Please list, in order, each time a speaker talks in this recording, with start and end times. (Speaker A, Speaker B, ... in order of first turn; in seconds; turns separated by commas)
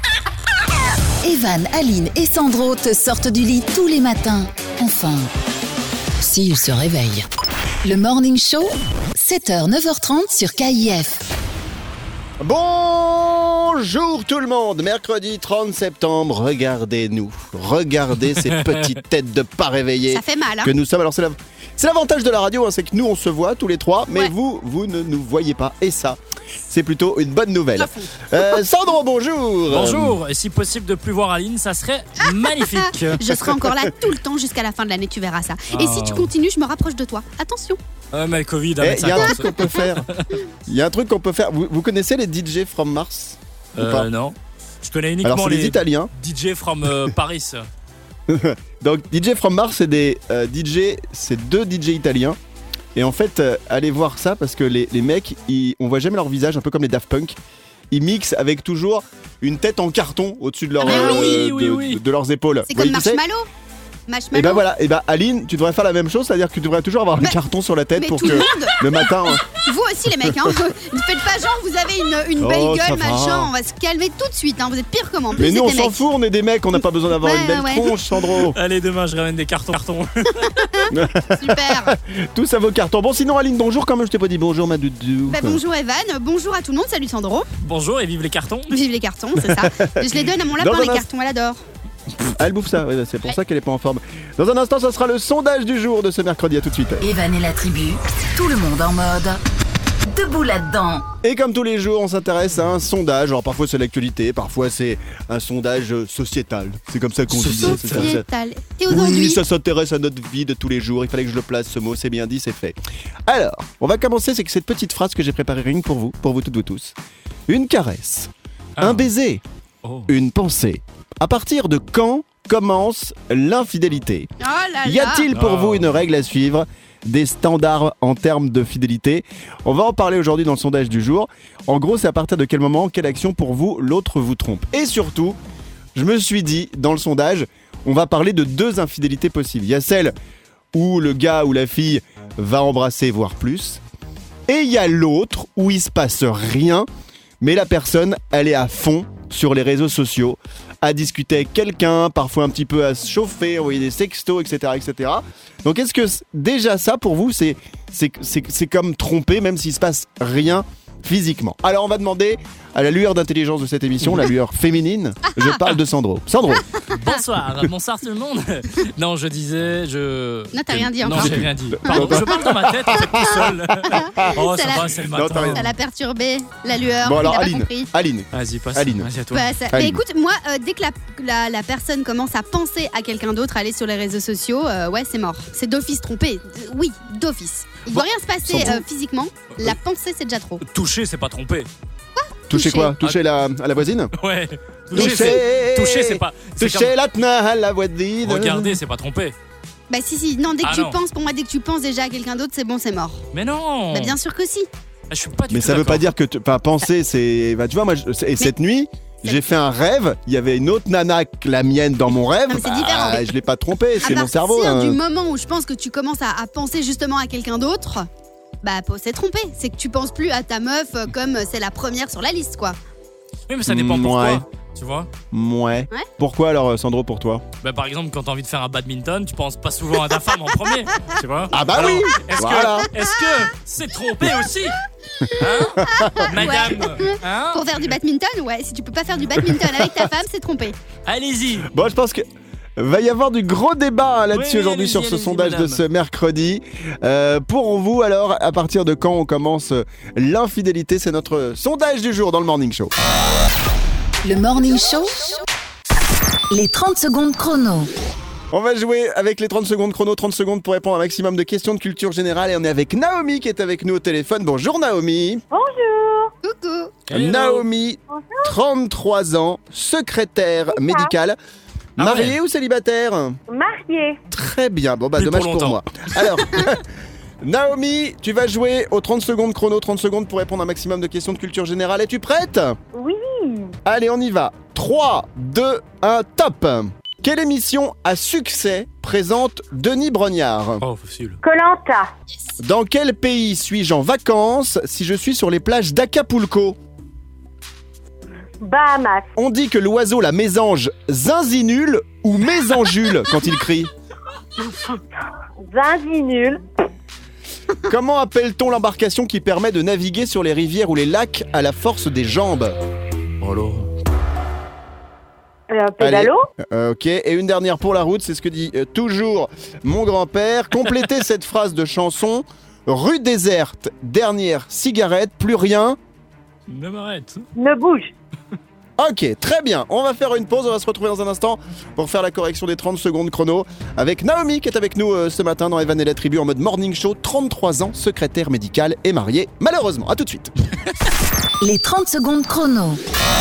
Speaker A: 1.2-5.3, Speaker A: 6.2-7.3, Speaker A: 7.8-11.3, Speaker B: 12.4-30.2, Speaker C: 20.1-20.7, Speaker C: 27.8-28.4, Speaker D: 29.7-33.2, Speaker C: 32.5-37.8, Speaker D: 35.7-36.3, Speaker D: 38.1-40.3, Speaker B: 38.8-40.1, Speaker B: 40.7-44.1, Speaker D: 43.8-47.7, Speaker B: 45.2-46.1, Speaker B: 48.3-52.4, Speaker B: 53.0-57.4, Speaker B: 57.9-63.2, Speaker D: 60.8-62.0, Speaker C: 60.8-61.4, Speaker C: 62.7-63.5, Speaker C: 64.1-64.6, Speaker B: 64.3-69.4, Speaker C: 68.0-68.8, Speaker D: 68.3-68.9, Speaker C: 69.3-76.0, Speaker B: 72.4-73.5, Speaker B: 75.3-78.6, Speaker C: 77.2-77.9, Speaker D: 78.5-80.6, Speaker C: 80.4-81.9, Speaker B: 80.9-85.6, Speaker C: 85.3-87.5, Speaker D: 87.6-88.8, Speaker C: 88.7-91.6, Speaker B: 89.4-91.1, Speaker B: 92.2-97.0, Speaker A: 97.0-99.4, Speaker A: 100.1-101.1, Speaker B: 101.2-108.2, Speaker D: 107.3-108.1, Speaker C: 107.6-109.4, Speaker B: 108.9-117.0, Speaker B: 117.5-119.4, Speaker D: 118.8-119.1, Speaker D: 119.8-120.1, Speaker B: 120.1-124.3, Speaker C: 124.4-125.3, Speaker B: 124.8-135.4, Speaker D: 125.3-125.9, Speaker B: 135.9-140.1, Speaker B: 140.7-143.8, Speaker B: 144.5-146.9, Speaker B: 147.4-166.7, Speaker C: 166.9-167.2, Speaker D: 166.9-175.7, Speaker C: 170.5-174.9, Speaker B: 171.1-174.3, Speaker B: 175.0-175.6, Speaker C: 175.5-177.9, Speaker B: 177.0-179.1, Speaker D: 178.3-179.5, Speaker C: 179.3-190.6, Speaker B: 179.7-180.0, Speaker B: 187.9-188.8, Speaker D: 190.6-191.7, Speaker C: 192.2-192.9, Speaker B: 192.5-194.1, Speaker D: 194.2-196.9, Speaker B: 194.9-198.8, Speaker D: 198.2-199.3, Speaker C: 199.9-203.2, Speaker D: 200.6-201.0, Speaker D: 203.3-204.2, Speaker C: 203.9-204.7, Speaker D: 205.1-206.1, Speaker B: 205.5-215.0, Speaker C: 212.5-213.2, Speaker C: 214.0-218.1, Speaker C: 218.6-222.8, Speaker D: 223.5-225.1, Speaker B: 223.7-224.4, Speaker B: 225.3-227.4, Speaker D: 227.6-234.8, Speaker B: 231.5-232.9, Speaker D: 235.4-237.7, Speaker C: 235.8-240.8, Speaker B: 235.8-236.3, Speaker D: 241.1-241.7, Speaker B: 241.6-242.2, Speaker B: 242.8-252.9, Speaker D: 244.3-245.8, Speaker A: 254.2-255.4, Speaker A: 256.5-257.9, Speaker B: 258.5-265.4, Speaker E: 265.5-266.3, Speaker C: 266.4-267.0, Speaker D: 267.1-267.7, Speaker B: 267.1-271.4, Speaker E: 268.1-268.5, Speaker E: 270.7-271.1, Speaker B: 272.0-273.4, Speaker D: 272.0-272.4, Speaker E: 273.5-274.2, Speaker B: 274.3-276.8, Speaker D: 275.2-275.8, Speaker B: 277.4-282.8, Speaker E: 282.9-283.7, Speaker B: 283.9-290.8, Speaker D: 290.8-291.4, Speaker E: 291.4-292.1, Speaker B: 292.6-296.8, Speaker E: 298.6-299.3, Speaker B: 299.4-303.9, Speaker E: 304.6-305.0, Speaker E: 305.7-306.6, Speaker B: 307.9-312.8, Speaker D: 313.4-313.9, Speaker E: 315.7-316.5, Speaker B: 316.0-326.0, Speaker D: 326.7-327.5, Speaker E: 327.6-328.1, Speaker B: 329.0-340.5, Speaker A: 341.6-343.0